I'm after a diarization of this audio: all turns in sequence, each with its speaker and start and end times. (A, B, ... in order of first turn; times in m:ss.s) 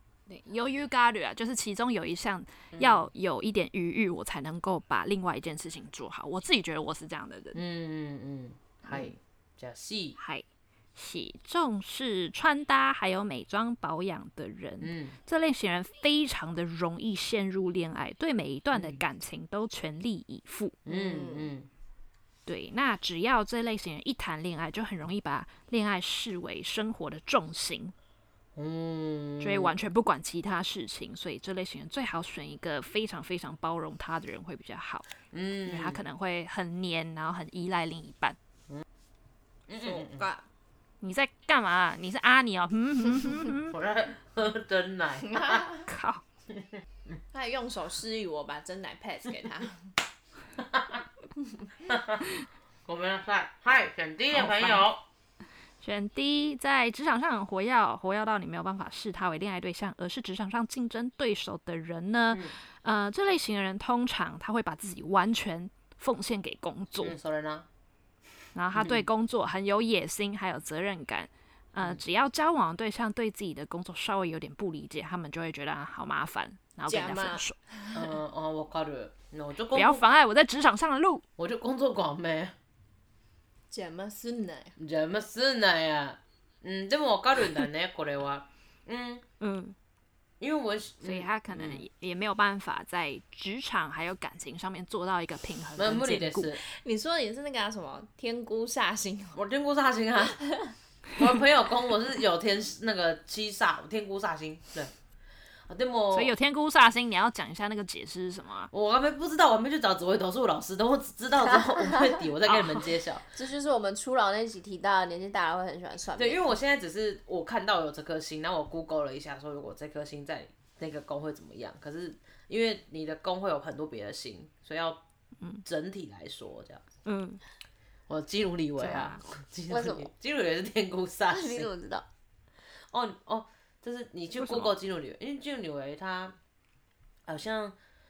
0:00.3-0:07.6 A
0:02.7-0:03.1 B
0:07.6-0:10.2 B
0:10.2-0:10.4 A
0:11.0-0:20.8 A
0:14.8-0:15.2 B
0:18.7-0:19.0 B
0:20.8-0:21.7 B
0:20.9-0:21.5 C
0:22.5-0:27.9 A
0:28.6-0:29.8 B
0:29.4-0:35.1 A
0:35.3-0:36.0 B
0:35.6-0:38.4 A
0:39.7-0:40.2 B
0:39.8-0:40.5 C
0:41.0-0:43.7 A
0:43.7-0:45.6 B
0:45.3-0:45.8 C
0:45.9-0:46.2 A
0:47.3-0:49.9 C
0:50.6-0:51.0 B
0:51.8-0:55.0 B
0:54.3-0:54.9 A
0:55.8-1:07.2 A
1:07.0-1:07.7 B
1:08.6-1:17.6 A
1:08.7-1:09.1 B
1:16.9-1:18.1 C
1:17.9-1:20.0 B
1:19.7-1:21.2 A
1:21.4-1:22.6 B
1:23.7-1:24.8 C
1:24.8-1:29.2 B
1:29.4-1:29.8 A
1:30.4-1:31.8 B
1:31.0-1:36.5 A
1:35.8-1:36.6 B
1:36.6-1:39.4 C
1:39.4-1:40.4 B
1:40.5-1:40.7 C
1:41.2-1:44.9 B
1:45.7-1:46.4 B
1:46.1-1:48.7 A
1:48.7-1:53.3 B
1:51.4-1:52.2 C
1:52.4-1:52.9 A
1:53.3-1:56.6 C
1:56.2-2:05.0 B
2:05.6-2:06.8 B
2:07.1-2:07.4 A
2:08.1-2:11.7 B
2:08.8-2:09.2 A
2:09.7-2:10.1 C
2:11.3-2:12.1 C
2:12.9-2:16.4 B
2:14.4-2:14.7 A
2:17.3-2:17.8 B